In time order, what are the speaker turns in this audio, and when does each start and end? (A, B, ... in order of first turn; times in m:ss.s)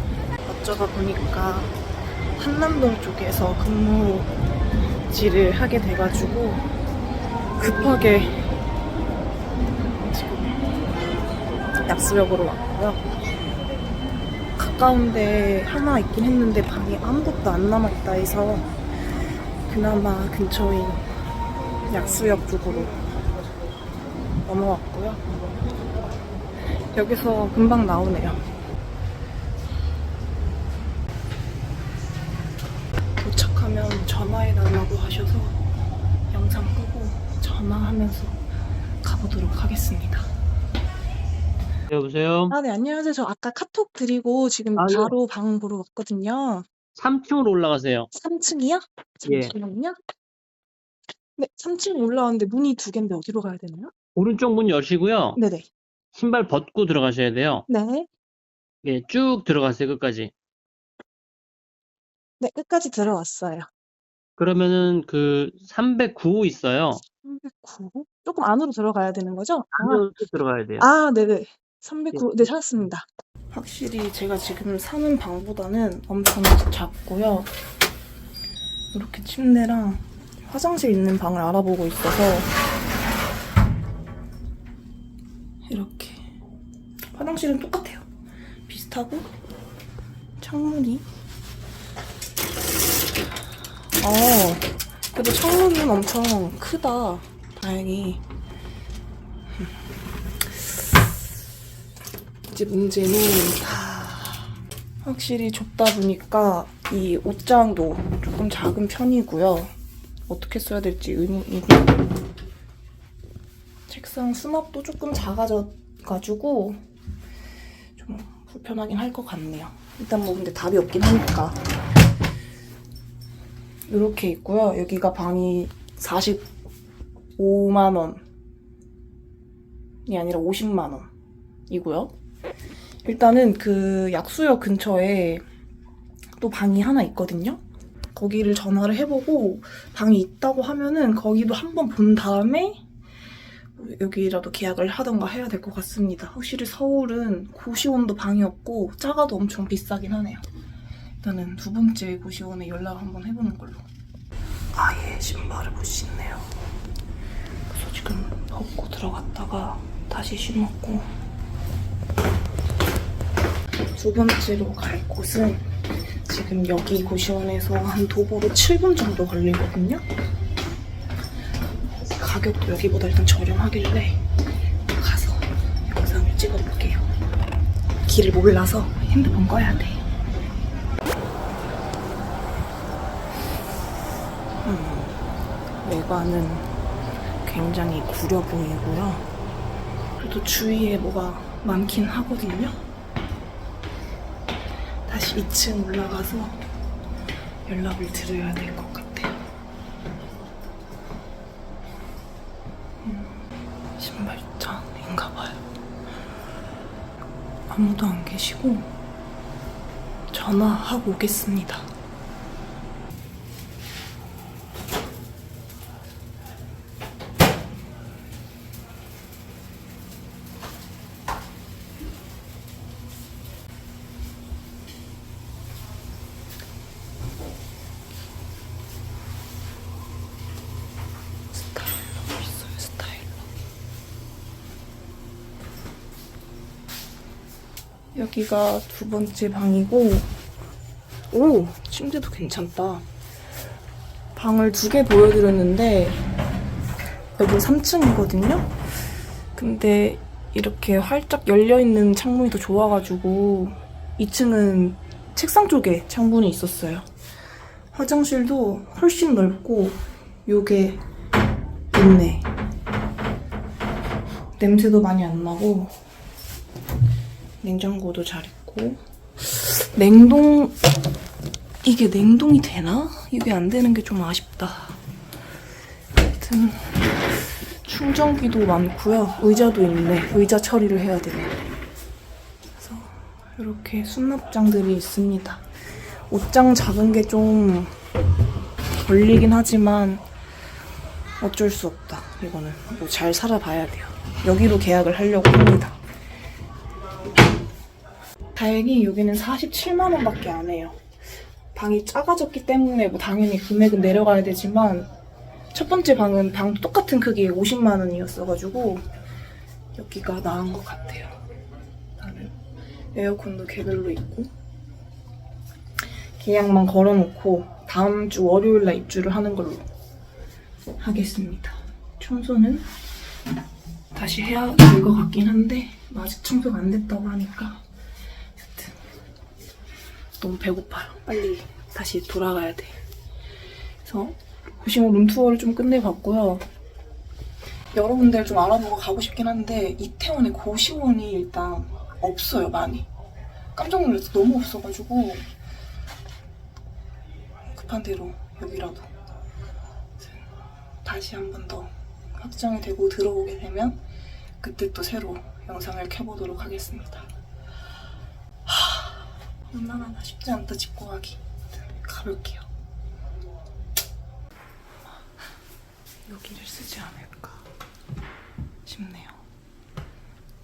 0:00.4-0:01.7 A
0:02.4-0:04.3 A
0:05.1-0:06.7 A
0:07.6-0:08.5 A
0:09.9-0:10.7 A
0:11.8-0:13.1 A
0:14.6-0:18.7 A
0:19.7-0:21.1 A
0:21.9-0:23.0 A
0:24.4-0:25.2 A
0:26.9-0:28.5 A
0:33.2-0:35.6 A
0:36.3-0:38.4 A
0:39.0-0:40.3 A
0:41.9-0:42.6 B
0:42.5-0:46.7 A
0:44.8-0:45.1 B
0:47.0-0:48.1 B
0:48.1-0:50.0 A
0:49.2-0:49.5 B
0:51.4-0:53.9 A
0:54.2-0:55.4 B
0:55.4-0:55.7 A
0:56.1-0:57.6 B
0:57.7-0:58.1 A
0:58.8-1:00.3 B
1:02.4-1:03.7 A
1:04.4-1:07.0 B
1:07.2-1:10.0 A
1:09.7-1:10.9 B
1:10.8-1:17.5 A
1:12.1-1:12.5 B
1:18.9-1:22.5 A
1:25.7-1:26.3 A
1:27.1-1:28.0 A
1:28.7-1:29.3 A
1:30.4-1:31.0 A
1:34.0-1:38.2 A
1:42.5-1:44.5 A
1:45.0-1:49.7 A
1:50.3-1:52.1 A
1:53.9-1:56.8 A
1:58.0-2:01.6 A
2:03.9-2:06.5 A
2:07.4-2:08.2 A
2:10.0-2:11.1 A
2:11.7-2:12.1 A
2:13.0-2:15.4 A
2:16.4-2:17.6 A
2:18.1-2:22.8 A
2:23.8-2:30.4 A
2:31.2-2:33.8 A
2:34.7-2:36.5 A
2:37.7-2:41.1 A
2:43.9-2:45.7 A
2:46.3-2:50.0 A
2:52.1-2:54.2 A
2:54.9-2:57.0 A
2:58.1-3:00.0 A
3:04.6-3:05.2 A
3:05.8-3:06.7 A
3:07.4-3:09.2 A
3:10.2-3:12.8 A
3:15.0-3:16.6 A
3:17.6-3:19.4 A
3:23.0-3:23.4 A
3:24.0-3:25.6 A
3:27.7-3:28.9 A
3:30.3-3:31.9 A
3:51.6-3:53.4 A
3:58.1-4:00.3 A
4:01.3-4:03.0 A
4:04.4-4:06.2 A
4:07.4-4:08.7 A
4:09.5-4:17.1 A
4:17.9-4:21.0 A
4:21.9-4:22.5 A
4:24.6-4:26.0 A
4:27.6-4:30.8 A
4:31.8-4:35.0 A
4:36.2-4:41.6 A
4:42.8-4:45.7 A
4:46.3-4:48.0 A
4:49.0-4:50.2 A
4:51.4-4:56.0 A
4:58.5-5:01.0 A
5:01.7-5:05.1 A
5:05.7-5:09.0 A
5:09.9-5:11.4 A
5:12.2-5:12.5 A
5:13.1-5:14.5 A
5:16.4-5:19.8 A
5:21.0-5:22.9 A
5:24.1-5:27.8 A
5:28.6-5:29.0 A
5:30.4-5:33.0 A
5:34.0-5:36.6 A
5:37.9-5:43.1 A
5:43.7-5:45.5 A
5:47.7-5:49.1 A
5:50.2-5:50.4 A
5:51.0-5:54.0 A
5:54.6-5:57.3 A
5:58.6-6:02.6 A
6:06.2-6:07.7 A
6:08.8-6:09.4 A